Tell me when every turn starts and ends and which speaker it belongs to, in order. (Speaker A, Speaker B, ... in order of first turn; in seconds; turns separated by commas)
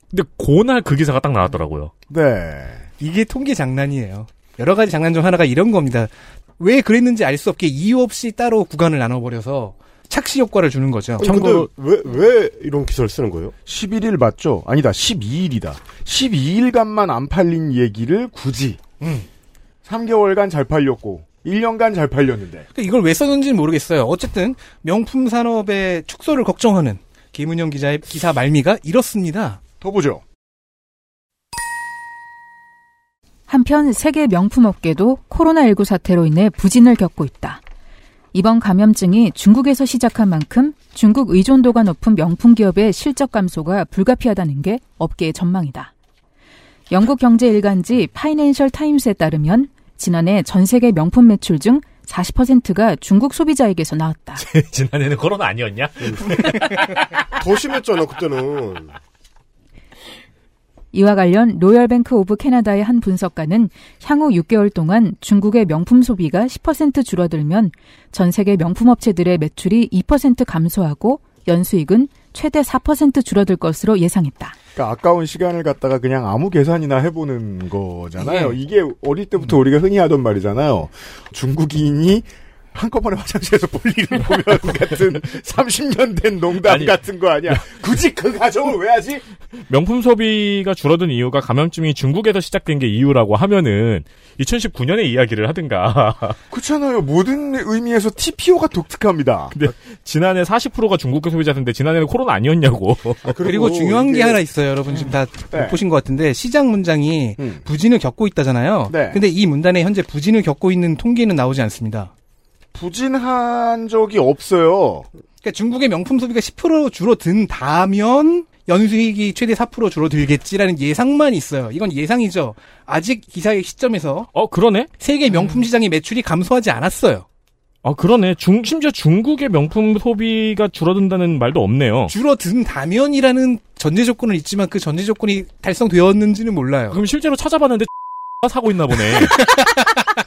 Speaker A: 0.1-1.9, Speaker B: 2.1-2.9, Speaker C: 3.0-11.3, Speaker D: 11.2-13.5, Speaker A: 11.2-11.7, Speaker B: 13.7-18.8, Speaker C: 19.0-19.3, Speaker B: 19.8-22.7, Speaker C: 22.7-29.6, Speaker B: 29.8-30.2, Speaker E: 33.5-37.6, Speaker E: 38.3-45.9, Speaker E: 46.9-54.4, Speaker A: 54.4-56.9, Speaker D: 56.0-56.4, Speaker D: 57.4-58.9, Speaker E: 60.9-74.5, Speaker B: 74.8-89.2, Speaker A: 86.6-87.0, Speaker A: 89.7-96.4, Speaker B: 96.5-99.5, Speaker A: 99.5-103.3, Speaker D: 103.3-104.4, Speaker C: 103.4-112.1, Speaker B: 107.4-107.7, Speaker B: 108.9-109.2, Speaker B: 112.7-115.1, Speaker C: 115.4-124.3, Speaker A: 124.3-124.9, Speaker C: 125.0-127.2, Speaker A: 127.8-132.1, Speaker C: 132.1-137.0, Speaker A: 136.9-137.9, Speaker A: 138.4-139.4